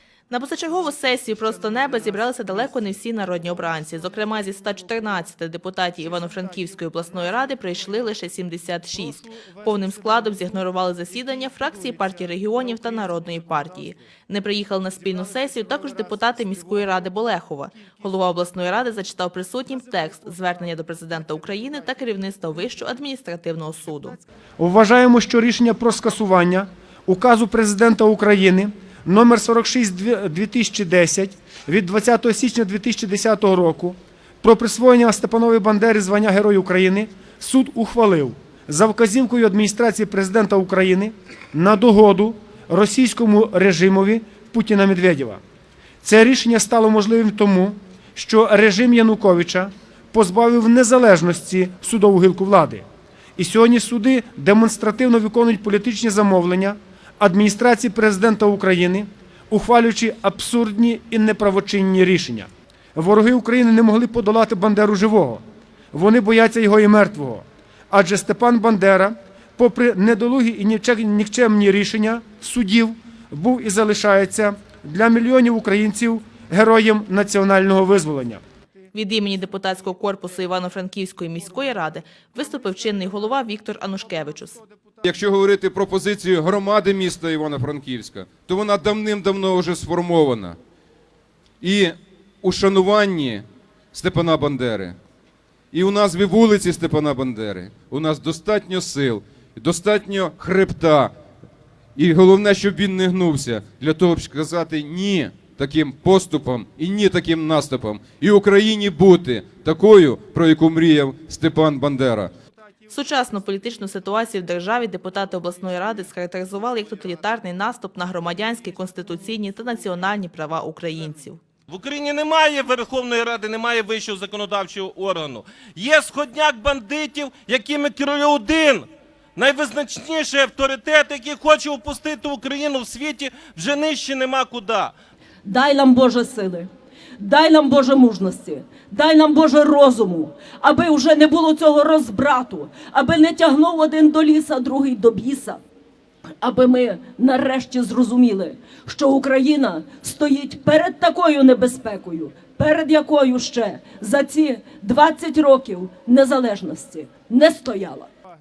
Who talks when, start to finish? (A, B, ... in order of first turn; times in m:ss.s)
0:00.3-0:24.2 A
0:24.6-0:45.4 B
0:46.0-0:52.8 B
0:53.4-1:05.4 B
1:05.9-1:18.4 B
1:18.9-1:24.6 A
1:25.0-1:30.6 C
1:31.6-1:35.0 C
1:35.7-1:41.1 C
1:42.0-1:52.3 C
1:52.9-2:01.4 A
2:01.7-2:08.8 D
2:09.4-2:14.9 D
2:15.4-2:25.6 E
2:26.4-2:38.1 E